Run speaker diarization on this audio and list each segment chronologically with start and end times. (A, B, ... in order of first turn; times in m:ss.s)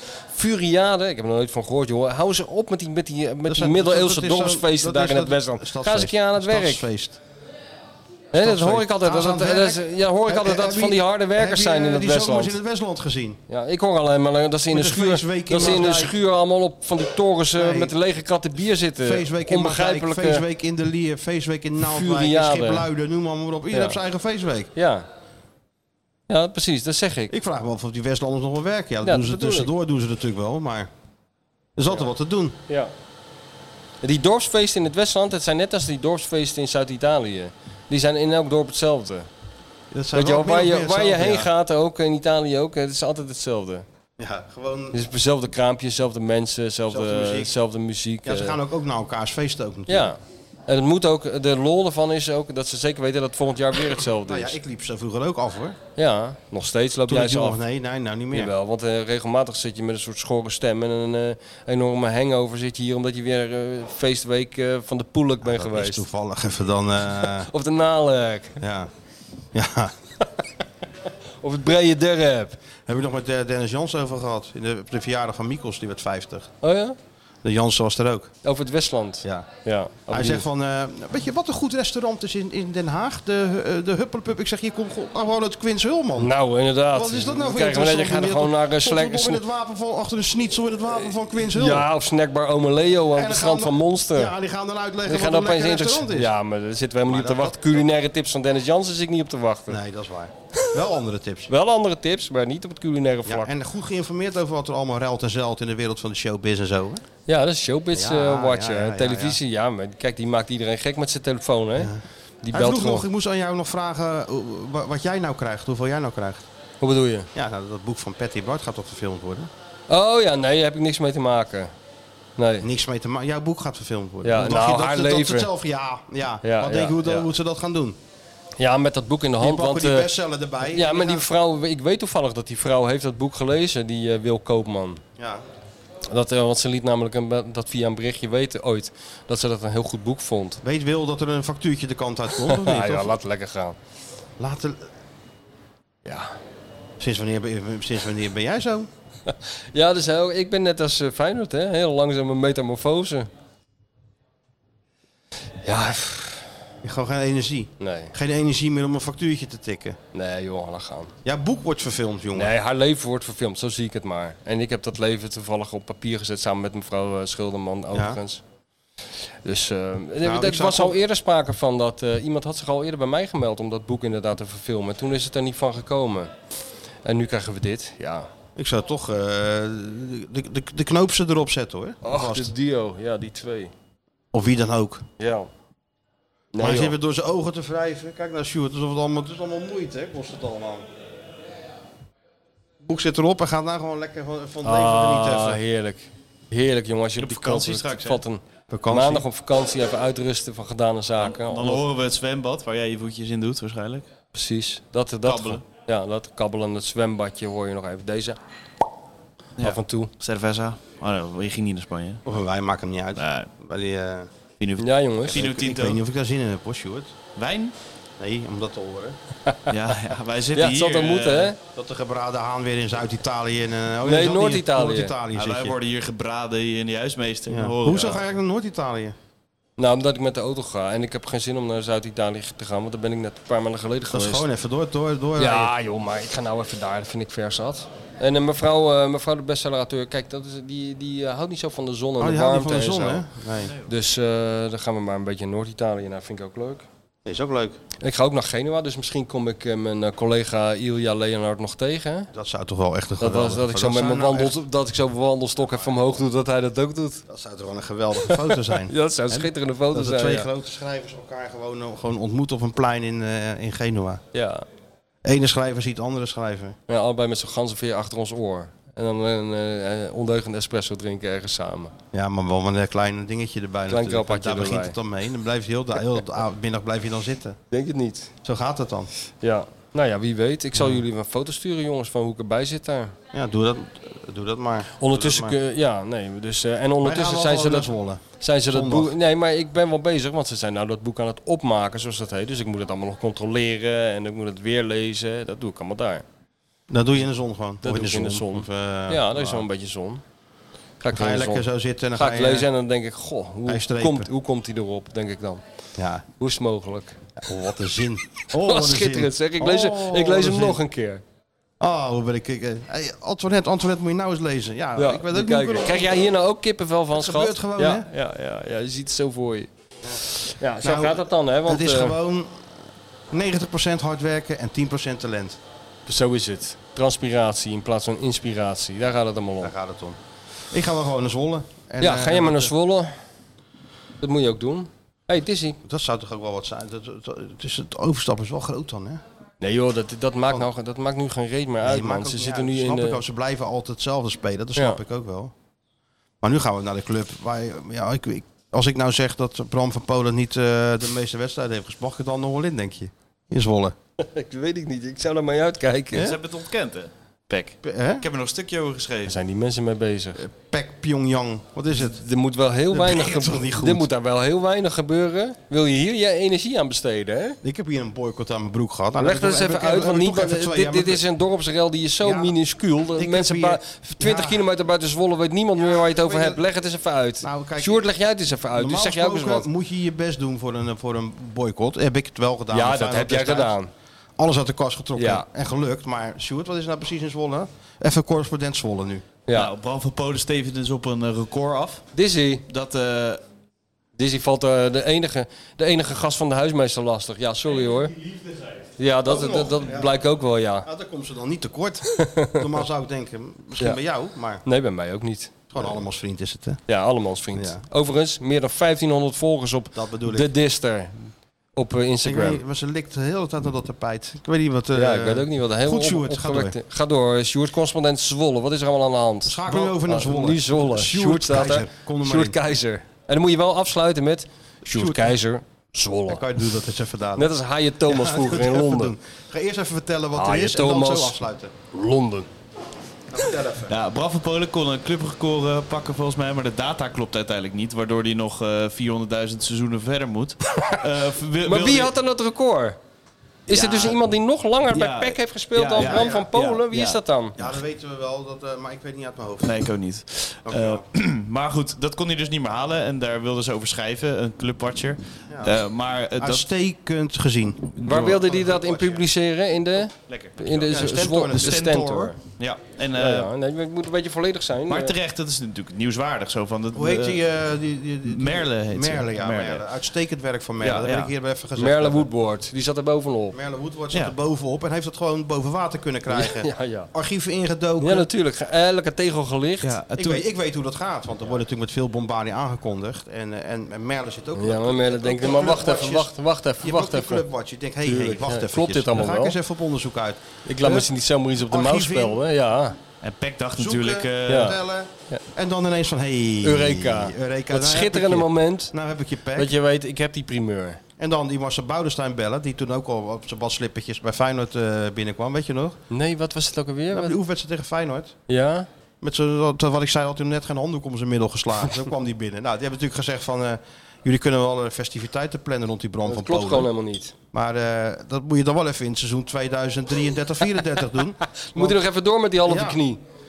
0:00.3-0:06.9 A
0:03.5-0:07.2 B
0:08.3-0:12.6 A
0:08.3-0:13.4 B
0:13.5-0:20.4 A
0:14.7-0:16.2 B
0:17.6-0:17.9 B
0:19.0-0:24.7 B
0:21.8-0:22.9 A
0:23.7-0:24.0 A
0:24.8-0:25.1 A
0:26.3-0:27.3 A
0:27.3-0:30.9 B
0:29.0-0:29.7 A
0:31.8-0:32.6 B
0:34.0-0:39.3 A
0:39.9-0:41.5 B
0:40.1-0:43.8 A
0:44.2-0:45.0 B
0:44.9-0:48.6 A
0:46.9-0:47.5 B
0:48.2-0:50.1 B
0:49.9-0:54.6 A
0:54.2-0:55.8 B
0:56.0-0:57.6 A
0:57.1-0:58.5 B
0:58.3-1:06.0 A
1:05.4-1:07.5 B
1:07.4-1:08.6 A
1:08.6-1:08.9 B
1:09.5-1:09.9 B
1:11.4-1:12.6 A
1:12.9-1:16.5 B
1:16.6-1:17.0 A
1:17.4-1:18.3 B
1:18.4-1:20.4 A
1:19.2-1:19.5 B
1:20.1-1:26.3 B
1:26.2-1:29.4 A
1:26.9-1:31.9 B
1:31.3-1:34.3 A
1:33.1-1:36.3 B
1:35.1-1:39.8 A
1:37.1-1:37.8 B
1:39.7-1:41.5 B
1:41.5-1:43.5 A
1:43.2-1:47.0 B
1:47.3-1:51.9 A
1:47.9-1:49.4 B
1:51.8-1:56.4 B
1:52.4-1:53.0 A
1:56.8-1:57.3 A
1:57.3-1:59.5 B
1:59.9-2:01.7 A
2:02.4-2:02.7 A
2:02.6-2:08.0 B
2:04.2-2:05.5 A
2:06.4-2:07.3 A
2:08.6-2:15.0 A
2:09.4-2:11.3 B
2:15.2-2:15.4 B
2:16.1-2:20.6 A
2:20.6-2:23.2 B
2:22.4-2:23.8 A
2:24.4-2:24.9 B
2:26.0-2:26.3 A
2:27.0-2:28.9 B
2:29.3-2:33.3 A
2:35.6-2:36.5 A
2:36.8-2:40.0 B
2:37.8-2:38.2 A
2:40.1-2:41.1 A
2:41.2-2:42.6 B
2:42.4-2:48.4 A
2:47.9-2:48.2 B
2:49.4-2:56.3 A
2:50.2-2:51.0 B
2:57.0-2:58.3 A
2:58.6-3:02.5 B
3:02.0-3:03.7 A
3:04.3-3:05.1 B
3:05.2-3:05.5 A
3:06.5-3:07.0 A
3:06.6-3:10.9 B
3:12.8-3:15.6 B
3:14.6-3:21.8 A
3:17.2-3:18.2 C
3:18.7-3:19.2 B
3:21.2-3:24.1 C
3:24.3-3:28.4 A
3:25.2-3:25.6 C
3:29.6-3:32.2 C
3:29.6-3:30.1 A
3:32.2-3:34.3 B
3:33.2-3:33.5 C
3:34.6-3:36.0 C
3:34.8-3:35.4 A
3:35.3-3:37.1 B
3:37.4-3:37.7 C
3:38.2-3:39.2 B
3:39.7-3:41.5 C
3:40.6-3:41.6 A
3:41.8-3:45.8 B
3:44.0-3:45.1 A
3:45.4-3:48.3 C
3:47.5-3:49.2 B
3:49.8-3:54.5 A
3:54.1-3:55.7 B
3:55.4-4:03.3 A
4:02.2-4:03.7 B
4:03.9-4:06.8 A
4:07.2-4:07.8 B
4:08.0-4:12.3 A
4:12.3-4:14.6 B
4:13.2-4:17.2 A
4:15.7-4:16.0 B
4:17.3-4:18.9 B
4:18.2-4:20.5 A
4:19.9-4:24.2 B
4:24.3-4:24.6 A
4:25.2-4:26.8 B
4:26.9-4:31.9 A
4:32.1-4:37.6 B
4:33.9-4:35.0 A
4:37.7-4:38.3 A
4:38.4-4:39.1 B
4:39.4-4:43.2 A
4:43.3-4:45.6 B
4:45.0-4:56.2 A
4:47.0-4:49.1 B
4:56.9-4:59.6 B
4:57.8-5:00.2 A
5:01.0-5:01.6 A
5:01.1-5:02.7 B
5:02.2-5:05.6 A
5:03.7-5:04.3 B
5:06.0-5:06.2 B
5:06.4-5:07.2 A
5:07.4-5:10.8 B
5:08.5-5:11.2 A
5:11.8-5:16.2 B
5:15.0-5:22.2 A
5:17.1-5:18.1 B
5:20.8-5:22.7 B
5:23.3-5:25.6 B
5:26.1-5:29.7 A
5:29.6-5:30.2 B
5:30.7-5:32.7 B
5:32.0-5:33.1 A
5:34.2-5:35.8 A
5:35.8-5:39.2 B
5:39.6-5:43.2 A
5:41.8-5:45.5 B
5:46.4-5:54.0 B
5:54.2-5:56.3 A
5:56.1-5:59.4 C
5:57.8-5:58.2 B
5:59.3-6:00.4 A
6:00.4-6:02.2 B
6:02.0-6:07.6 A
6:02.9-6:04.1 B
6:07.6-6:11.2 B
6:09.2-6:19.7 A
6:12.2-6:12.6 B
6:13.2-6:14.6 B
6:15.8-6:16.6 B
6:17.4-6:18.1 B
6:18.7-6:23.8 B
6:22.7-6:23.9 A
6:24.4-6:29.3 B
6:25.2-6:25.4 A
6:29.5-6:32.1 C
6:32.2-6:32.6 A
6:32.7-6:33.4 C
6:34.2-6:38.2 A
6:38.2-6:38.7 C
6:39.0-6:40.9 A
6:39.3-6:40.2 B
6:40.8-6:44.6 B
6:42.2-6:42.6 A
6:44.6-6:45.5 A
6:45.7-6:46.8 B
6:46.9-6:52.6 A
6:47.5-6:47.8 B
6:49.9-6:50.5 B
6:52.2-6:56.8 B
6:55.0-7:06.4 A
6:59.4-7:02.6 B
7:04.9-7:05.4 B
7:06.3-7:07.5 B
7:07.4-7:09.1 A
7:08.1-7:11.7 B
7:10.4-7:11.4 A
7:11.9-7:12.5 A
7:13.3-7:13.9 B
7:13.9-7:22.1 C
7:21.6-7:23.0 A
7:23.7-7:27.5 A
7:23.7-7:24.2 C
7:24.9-7:27.7 C
7:26.0-7:26.5 B
7:27.6-7:29.8 B
7:29.6-7:36.7 C
7:30.7-7:31.0 B
7:35.5-7:35.8 B
7:36.4-7:39.2 B
7:37.9-7:39.1 C
7:38.0-7:42.4 A
7:40.3-7:43.5 C
7:40.7-7:42.3 B
7:43.2-7:45.2 A
7:44.9-7:47.4 C
7:46.9-7:52.3 B
7:48.3-7:49.8 C
7:50.9-7:51.3 C
7:51.8-7:53.6 A
7:53.5-7:58.3 B
7:56.3-7:57.1 A
7:58.0-8:00.0 A
7:59.8-8:00.4 C
8:00.2-8:11.1 B
8:04.6-8:07.5 A
8:08.0-8:09.6 A
8:10.6-8:13.0 A
8:11.7-8:12.4 B
8:13.2-8:14.8 C
8:13.8-8:19.7 B
8:14.5-8:14.8 A
8:16.6-8:18.9 A
8:19.6-8:21.0 A
8:21.2-8:26.0 B
8:26.1-8:27.4 A
8:27.1-8:28.4 B
8:28.5-8:28.9 A
8:29.2-8:36.9 B
8:36.3-8:37.3 A
8:37.5-8:42.0 B
8:41.7-8:43.2 A
8:42.6-8:43.0 B